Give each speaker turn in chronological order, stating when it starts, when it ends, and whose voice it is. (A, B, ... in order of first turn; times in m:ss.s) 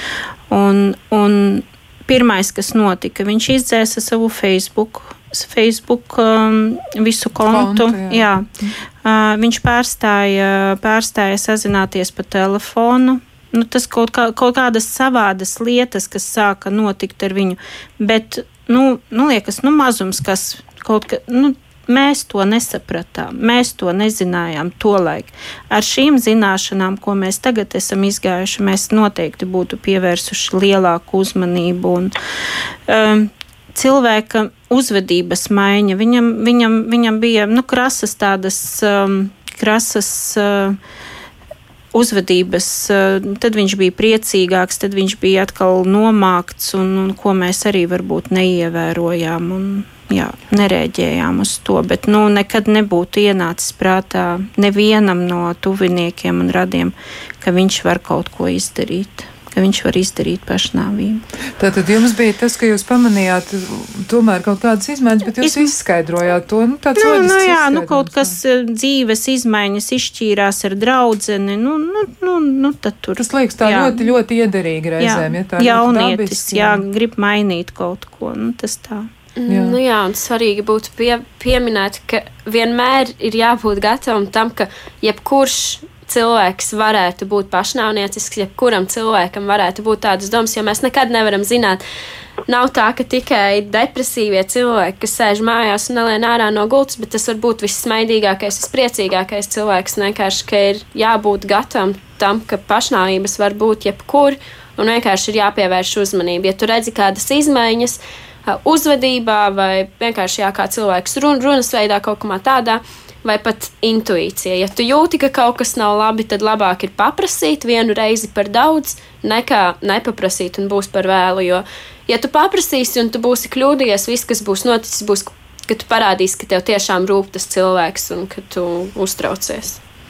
0:00.5-0:08.5 A
0:07.4-0:08.7 B
0:09.0-0:32.1 A
0:32.9-0:40.8 A
0:41.9-1:01.2 A
1:01.6-1:08.4 B
1:05.4-1:05.7 A
1:07.0-1:14.1 A
1:13.2-1:16.8 B
1:15.0-1:19.1 A
1:19.4-1:31.8 C
1:19.5-1:19.8 B
1:32.5-2:09.8 C